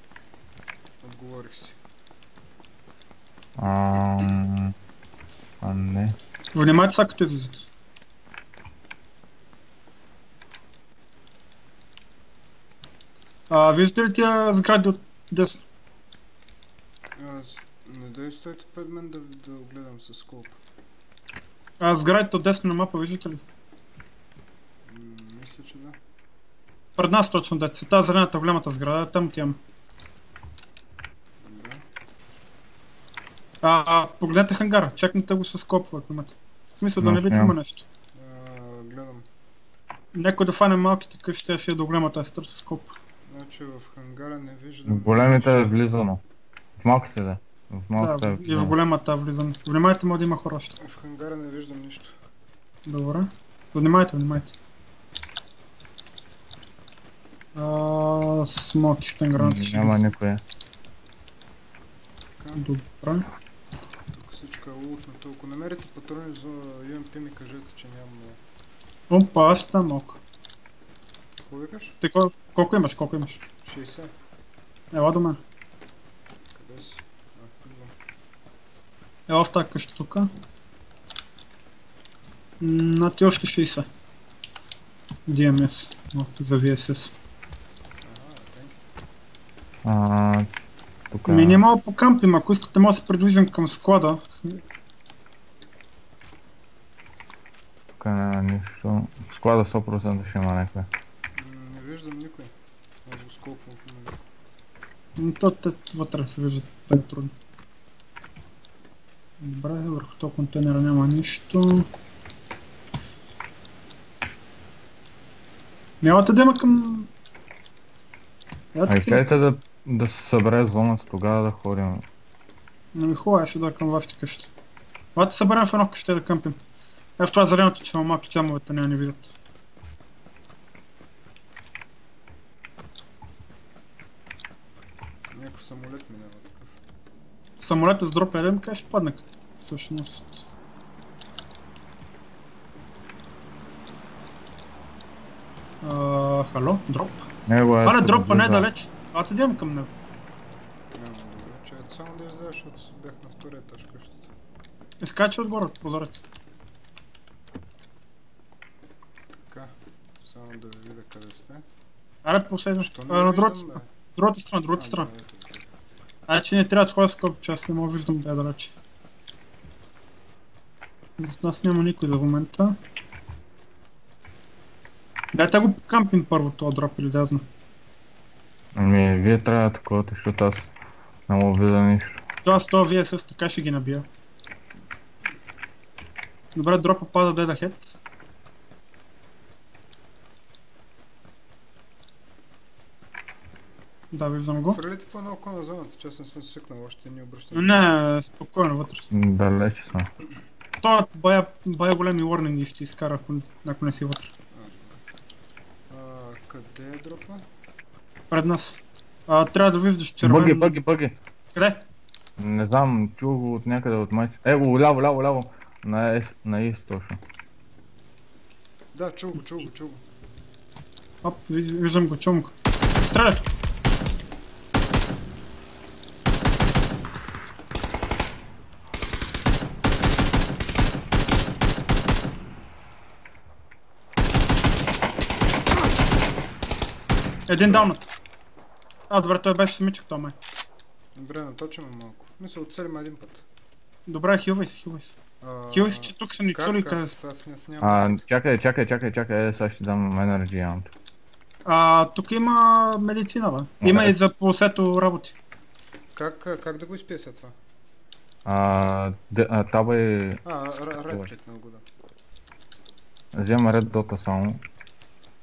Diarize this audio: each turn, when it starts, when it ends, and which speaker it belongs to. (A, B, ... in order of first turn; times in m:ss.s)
0:01.0-0:01.8 A
0:03.6-0:04.7 B
0:05.6-0:06.2 B
0:06.5-0:07.6 C
0:13.5-0:15.6 C
0:17.2-0:20.6 A
0:21.8-0:23.4 C
0:24.8-0:26.0 A
0:27.0-0:29.6 C
0:31.4-0:31.8 A
0:33.6-0:37.8 C
0:37.0-0:37.6 B
0:38.1-0:39.2 A
0:40.1-0:42.9 C
0:43.3-0:45.8 A
0:44.8-0:46.2 B
0:46.8-0:48.8 B
0:48.0-0:50.7 C
0:50.8-0:52.1 A
0:52.8-0:54.5 C
0:57.5-1:00.1 C
0:59.4-1:00.4 B
1:02.4-1:02.6 A
1:02.6-1:03.2 C
1:04.1-1:08.4 A
1:09.1-1:10.2 C
1:11.4-1:12.0 A
1:12.0-1:13.4 C
1:13.6-1:14.1 A
1:14.9-1:15.4 C
1:16.5-1:17.9 A
1:19.3-1:20.3 C
1:22.6-1:23.8 C
1:25.3-1:27.1 C
1:28.0-1:28.8 A
1:29.8-1:30.5 B
1:31.1-1:31.6 B
1:31.3-1:34.6 C
1:38.0-1:40.9 B
1:41.3-1:42.5 A
1:43.0-1:44.2 A
1:45.2-1:47.3 C
1:49.4-1:51.9 C
1:56.0-1:57.1 C
1:58.7-1:59.2 C
1:58.9-2:02.0 B
2:02.9-2:04.5 C
2:05.2-2:06.6 C
2:07.2-2:09.3 C
2:15.3-2:16.8 A
2:17.6-2:20.4 C
2:25.8-2:27.3 C
2:27.5-2:28.7 B
2:27.8-2:29.9 C
2:30.9-2:34.3 A
2:35.0-2:36.2 C
2:39.5-2:41.6 A
2:42.2-2:45.1 C
2:42.7-2:43.9 A
2:44.7-2:45.8 A
2:46.3-2:48.7 C
2:51.2-2:52.8 C
2:55.3-2:57.4 C
2:58.7-3:00.7 B
3:01.3-3:02.2 B
3:02.4-3:04.0 C
3:06.5-3:08.0 C
3:14.1-3:14.8 C
3:14.4-3:17.9 A
3:17.5-3:19.1 C
3:19.1-3:20.1 B
3:20.8-3:24.3 C
3:24.5-3:25.0 A
3:25.9-3:27.4 A
3:28.3-3:30.8 C
3:30.2-3:31.2 B
3:31.5-3:31.8 C
3:32.4-3:37.2 B
3:38.9-3:40.0 A
3:41.2-3:43.4 C
3:57.5-3:58.1 C
3:57.6-3:57.9 A
3:59.1-4:00.4 C
4:01.1-4:03.4 A
4:04.0-4:05.1 C
4:05.4-4:08.2 A
4:05.7-4:07.1 C
4:07.8-4:10.9 B
4:11.6-4:15.3 C
4:13.8-4:14.1 B
4:16.1-4:17.5 A
4:18.4-4:20.4 B
4:20.4-4:21.8 A
4:23.3-4:24.6 B